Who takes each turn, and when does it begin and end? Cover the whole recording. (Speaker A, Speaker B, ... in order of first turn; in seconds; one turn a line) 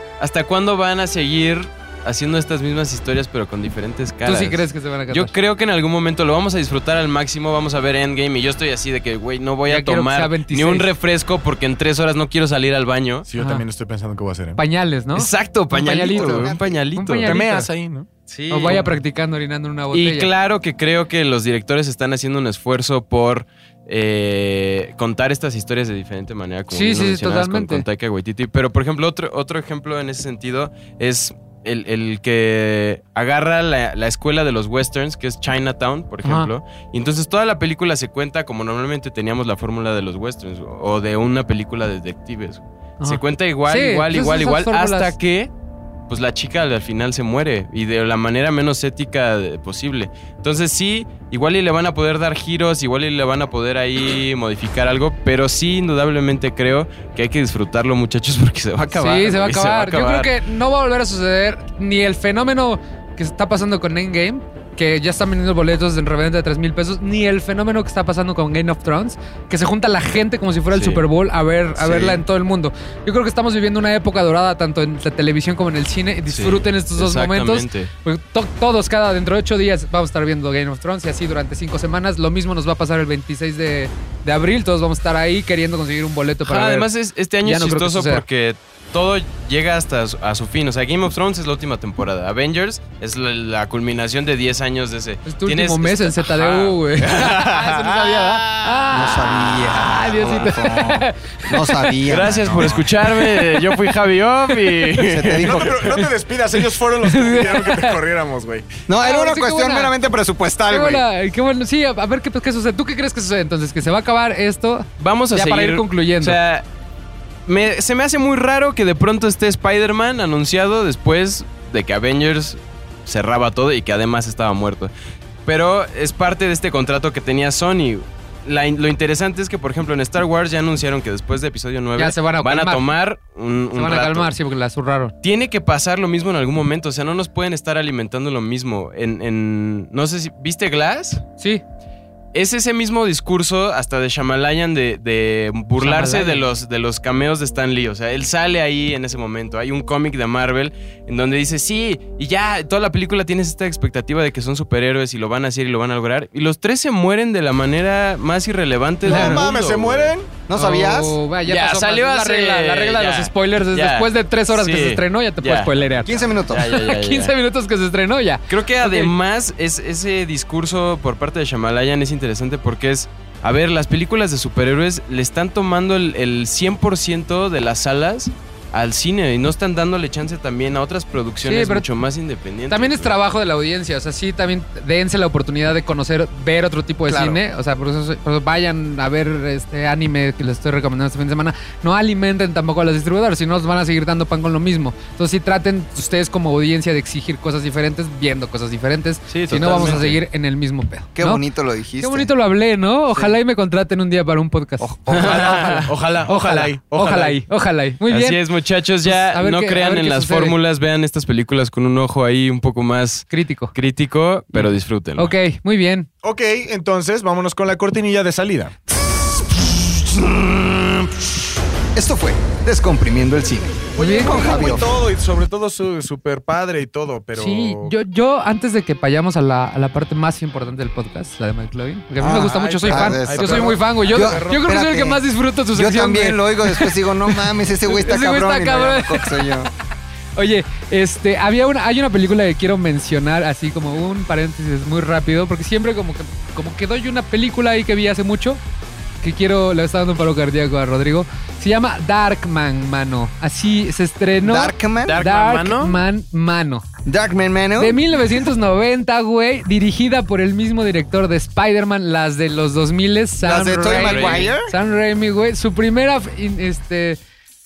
Speaker A: 0.2-13.3
Speaker B: 4.2-5.3
Speaker B: 9.7-10.9
Speaker C: 13.3-14.6
Speaker B: 13.4-13.6
Speaker B: 14.6-17.7
Speaker A: 15.1-17.4
Speaker D: 16.1-16.8
Speaker C: 17.2-18.1
Speaker A: 18.3-18.9
Speaker B: 18.5-20.3
Speaker A: 19.9-45.5
Speaker B: 26.7-27.8
Speaker B: 36.2-36.5
Speaker B: 43.0-45.1
Speaker A: 46.1-60.3
Speaker B: 58.9-86.9
Speaker A: 70.7-71.0
Speaker A: 76.3-77.9
Speaker A: 86.4-98.8
Speaker B: 87.4-88.2
Speaker B: 95.2-102.2
Speaker D: 98.9-102.8
Speaker A: 102.1-105.8
Speaker C: 102.4-102.8
Speaker B: 103.0-103.7
Speaker D: 105.1-105.8
Speaker C: 105.4-108.7
Speaker B: 107.0-108.0
Speaker D: 108.9-111.0
Speaker B: 109.0-109.9
Speaker B: 110.7-116.4
Speaker A: 115.0-116.6
Speaker A: 117.5-124.9
Speaker A: 125.5-134.3
Speaker B: 131.9-132.8
Speaker B: 133.7-135.1
Speaker A: 135.2-141.2
Speaker A: 142.3-160.1
Speaker B: 145.8-146.4
Speaker C: 159.0-160.3
Speaker B: 159.1-159.4
Speaker D: 160.5-161.2
Speaker B: 160.5-169.1
Speaker A: 161.4-167.3
Speaker D: 166.0-166.7
Speaker A: 168.5-183.1
Speaker B: 181.4-181.8
Speaker B: 182.7-201.4
Speaker D: 187.1-187.4
Speaker A: 199.3-200.2
Speaker D: 201.1-202.3
Speaker B: 202.0-204.9
Speaker D: 204.8-205.8
Speaker A: 205.1-205.9
Speaker C: 205.1-207.4
Speaker B: 206.2-208.4
Speaker A: 208.1-215.3
Speaker B: 209.0-210.5
Speaker B: 213.3-213.7
Speaker B: 214.5-216.1
Speaker C: 216.2-218.7
Speaker D: 219.8-221.3
Speaker D: 221.9-224.9
Speaker C: 223.9-227.9
Speaker B: 224.0-224.4
Speaker B: 227.3-239.4
Speaker C: 232.2-234.6
Speaker D: 232.3-239.7
Speaker B: 240.3-248.6
Speaker B: 249.2-256.9
Speaker D: 254.4-255.2
Speaker A: 255.1-256.0
Speaker D: 257.1-258.0
Speaker B: 257.8-267.2
Speaker D: 263.4-264.7
Speaker A: 263.9-264.5